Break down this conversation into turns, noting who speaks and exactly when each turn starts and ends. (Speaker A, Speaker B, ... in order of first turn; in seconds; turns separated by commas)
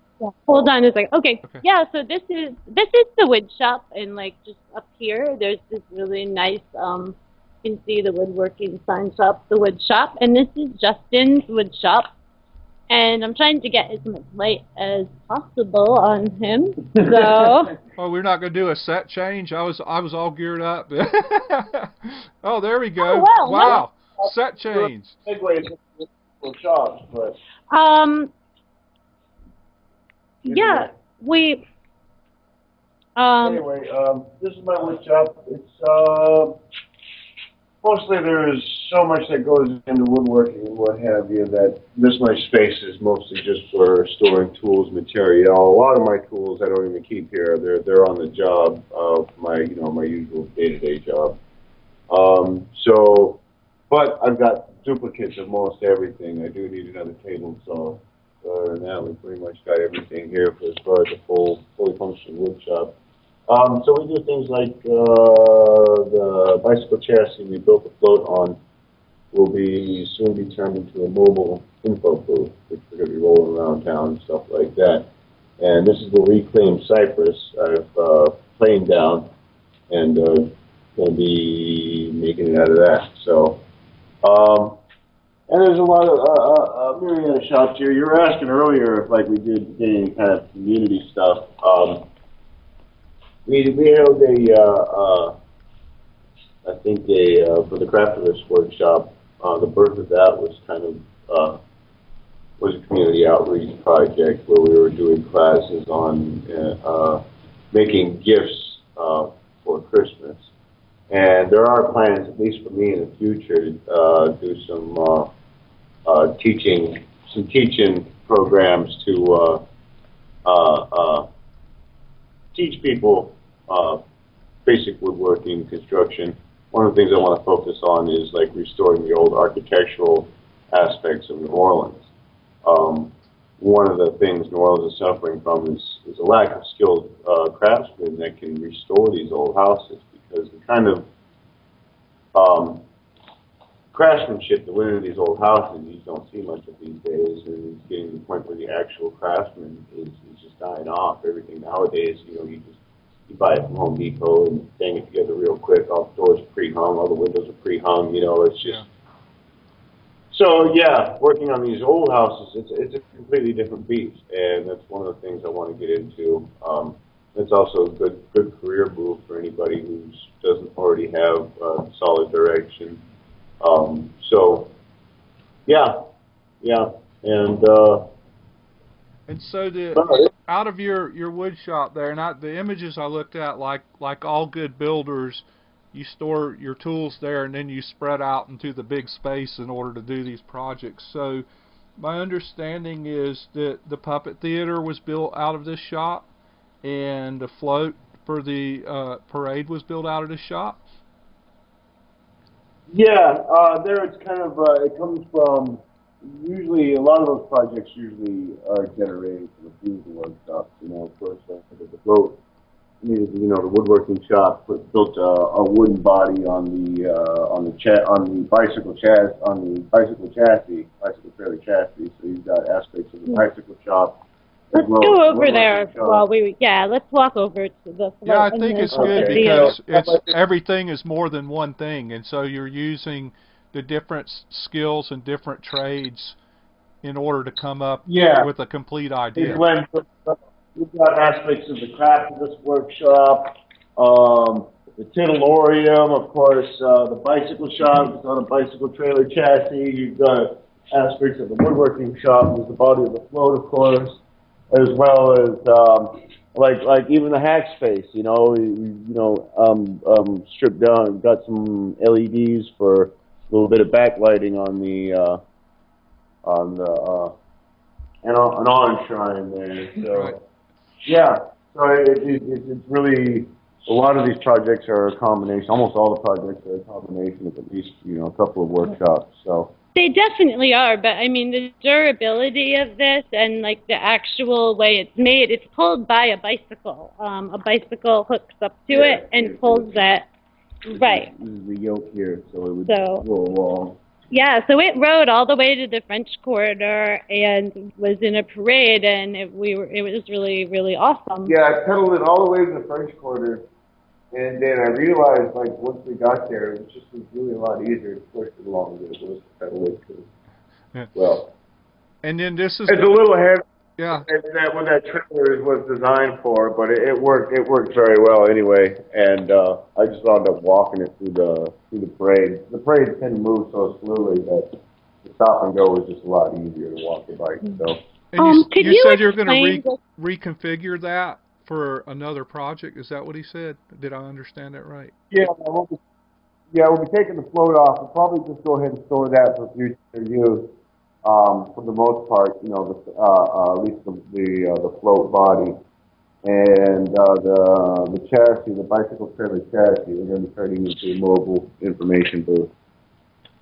Speaker A: 0.2-12.1, Speaker A: 12.9-17.7, Speaker B: 17.0-17.5, Speaker C: 18.0-25.2, Speaker A: 23.0-23.8, Speaker B: 24.3-27.4, Speaker A: 27.7-28.3, Speaker A: 30.4-31.6, Speaker B: 30.5-30.9, Speaker A: 33.2-33.6, Speaker B: 33.4-36.6, Speaker B: 37.8-51.4, Speaker B: 52.1-63.0, Speaker B: 63.5-68.6, Speaker B: 69.3-79.3, Speaker B: 79.9-83.6, Speaker B: 84.2-84.8, Speaker B: 85.5-92.1, Speaker B: 93.5-95.4, Speaker B: 96.6-101.6, Speaker B: 102.6-110.5, Speaker B: 111.1-115.3, Speaker B: 116.0-119.6, Speaker B: 120.5-121.3, Speaker B: 122.5-124.0, Speaker B: 124.7-132.1, Speaker B: 132.6-141.1, Speaker B: 142.3-142.8, Speaker B: 143.9-158.9, Speaker B: 160.3-173.0, Speaker B: 173.6-174.7, Speaker B: 175.7-176.0, Speaker B: 176.6-178.1, Speaker C: 179.3-191.4, Speaker B: 180.0-180.3, Speaker C: 192.0-196.3, Speaker C: 196.8-200.8, Speaker B: 202.9-212.4, Speaker B: 213.0-226.2, Speaker A: 224.7-229.8, Speaker C: 228.2-236.4, Speaker B: 228.9-230.3, Speaker C: 237.0-239.6, Speaker B: 238.1-238.5, Speaker B: 239.3-265.4, Speaker B: 266.4-267.4, Speaker B: 268.2-270.4, Speaker C: 270.0-270.4, Speaker B: 271.0-279.7, Speaker A: 279.9-290.3, Speaker B: 288.9-290.1, Speaker A: 290.9-291.3, Speaker B: 290.9-294.0, Speaker A: 292.9-293.2, Speaker A: 294.3-301.5, Speaker B: 301.5-303.7, Speaker B: 304.3-310.3, Speaker B: 311.1-311.5, Speaker C: 312.2-313.1, Speaker B: 312.9-328.0, Speaker C: 314.0-314.3, Speaker C: 328.3-335.1, Speaker A: 328.4-330.0, Speaker B: 335.3-336.0, Speaker B: 336.7-345.8, Speaker B: 346.4-352.7